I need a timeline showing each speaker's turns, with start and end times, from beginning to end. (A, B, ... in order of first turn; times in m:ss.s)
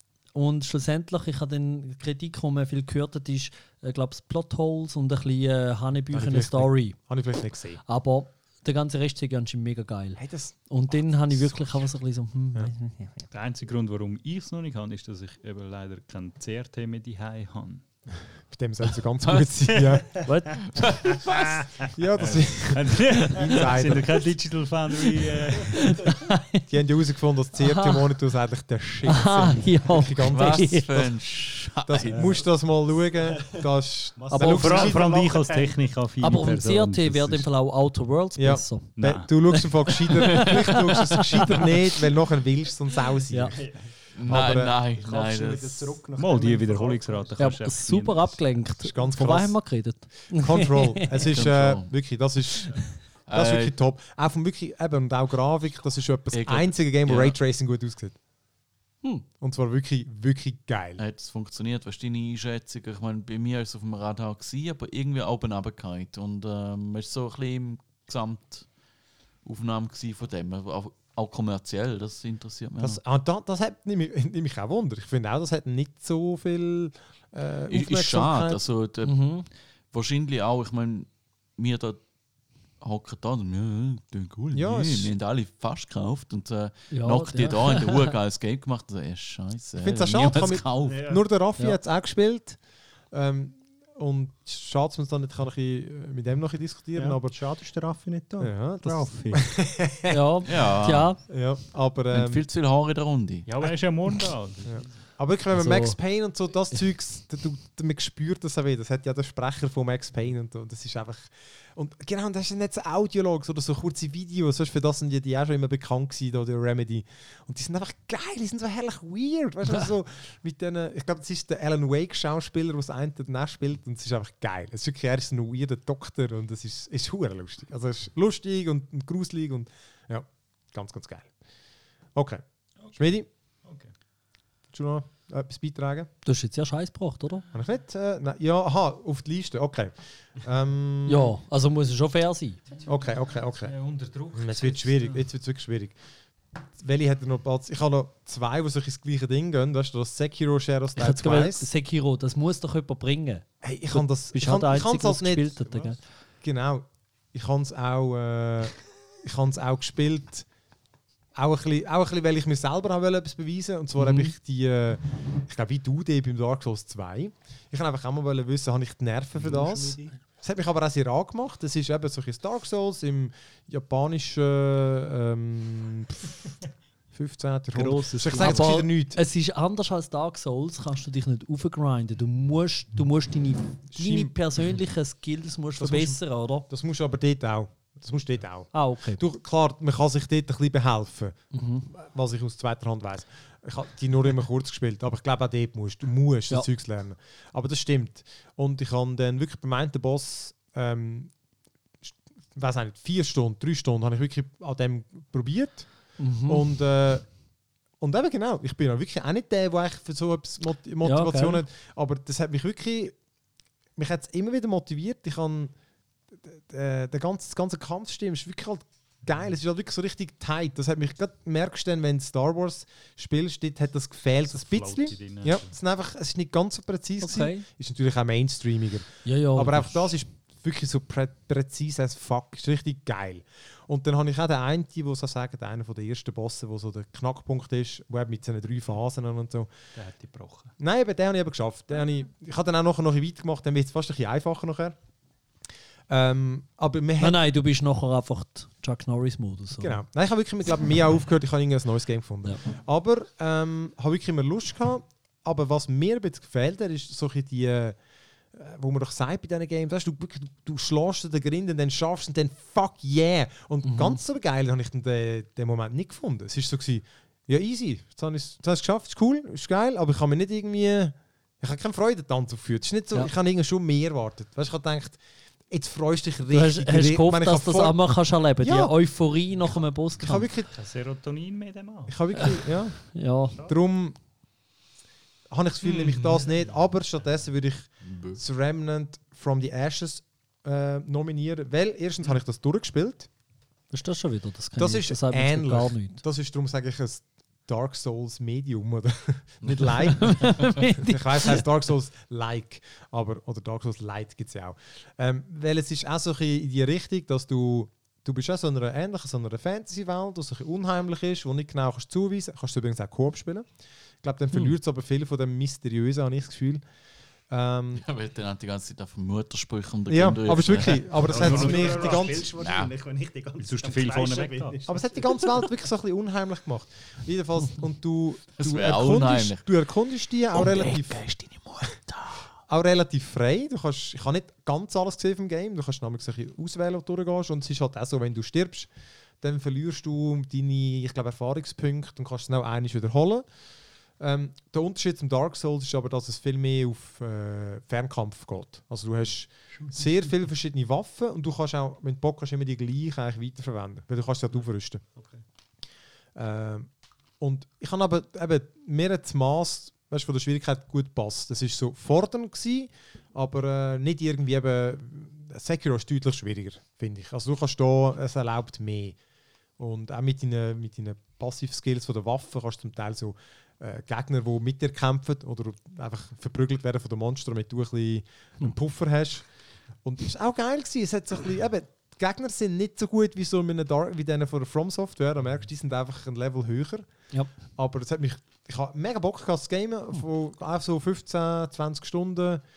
0:00.3-0:07.0 A
0:06.1-0:07.8 B
0:07.8-0:13.3 A
0:10.2-0:11.8 B
0:13.3-0:17.8 C
0:18.5-0:20.2 B
0:19.2-0:19.5 D
0:20.2-0:20.6 A
0:20.7-0:21.7 D
0:21.8-0:24.1 B
0:22.2-0:26.0 C
0:25.7-0:26.6 A
0:26.7-0:31.2 B
0:27.6-0:28.0 A
0:29.0-0:30.9 A
0:30.3-0:32.4 D
0:31.8-0:35.2 B
0:34.2-0:35.8 E
0:34.3-0:34.7 A
0:34.4-0:37.5 C
0:36.2-0:41.8 A
0:38.4-0:44.8 B
0:39.0-0:39.3 C
0:43.3-0:43.6 A
0:43.5-0:43.9 E
0:44.2-0:46.0 D
0:44.9-0:47.6 E
0:46.1-0:48.6 C
0:47.4-0:51.3 A
0:48.8-0:58.2 B
0:51.3-0:51.9 D
0:53.3-0:53.7 D
0:56.3-0:57.4 D
0:59.4-1:01.0 B
1:01.0-1:08.6 D
1:09.4-1:13.0 D
1:12.8-1:18.6 B
1:17.7-1:19.4 D
1:19.0-1:19.4 A
1:19.9-1:22.0 D
1:22.8-1:31.0 D
1:24.5-1:25.1 B
1:26.9-1:28.1 A
1:29.8-1:32.6 B
1:30.8-1:31.2 E
1:33.1-1:37.4 B
1:37.0-1:39.4 E
1:38.4-1:40.2 B
1:40.1-1:41.2 A
1:40.4-1:41.1 D
1:41.3-1:42.4 B
1:42.1-1:43.5 D
1:43.4-1:44.9 C
1:44.6-2:11.3 B
1:45.5-1:46.0 A
2:12.1-2:12.4 B
2:12.9-2:13.3 B
2:14.7-2:16.1 B
2:16.2-2:17.4 A
2:17.5-2:21.3 B
2:21.1-2:22.6 A
2:22.8-2:23.7 B
2:23.6-2:25.2 C
2:24.3-2:26.0 B
2:26.8-2:31.7 B
2:31.0-2:36.0 A
2:33.6-2:35.8 B
2:36.4-2:40.4 B
2:41.4-2:56.4 B
2:44.0-2:44.3 A
2:49.4-2:50.1 E
2:57.1-2:59.2 B
2:57.8-2:58.7 E
2:58.1-3:06.6 A
3:03.9-3:04.4 B
3:05.8-3:21.3 B
3:08.7-3:09.2 A
3:11.5-3:11.9 A
3:22.0-3:25.9 B
3:26.2-3:26.7 A
3:26.4-3:27.2 B
3:28.0-3:33.2 B
3:31.0-3:31.6 A
3:34.0-3:35.7 B
3:36.4-3:59.7 B
3:44.5-3:45.7 C
3:47.2-3:47.6 A
3:49.2-3:50.0 A
3:59.9-4:00.7 C
4:00.8-4:05.0 B
4:06.1-4:07.4 B
4:07.2-4:10.0 A
4:09.8-4:18.0 B
4:18.5-4:38.9 B
4:23.8-4:24.2 A
4:36.5-4:40.5 A
4:40.2-4:40.7 B
4:40.7-4:42.2 C
4:42.1-4:44.2 B
4:42.3-4:42.6 A
4:43.1-4:43.6 A
4:45.5-4:53.3 B
4:48.1-4:48.4 D
4:53.9-4:56.2 A
4:54.8-5:13.6 B
5:00.0-5:01.6 A
5:14.2-5:16.8 B
5:17.5-5:18.0 B
5:18.0-5:21.8 D
5:20.1-5:22.5 B
5:21.2-5:25.5 E
5:22.6-5:22.9 D
5:23.6-5:24.8 C
5:24.8-5:31.3 B
5:28.6-5:29.6 D
5:30.5-5:32.5 D
5:32.7-5:38.9 B
5:39.4-5:43.4 B
5:44.2-5:55.0 B
5:56.3-5:56.9 B
5:57.4-6:09.2 B
6:09.8-6:19.4 B
6:20.0-6:27.0 B
6:27.8-6:32.6 B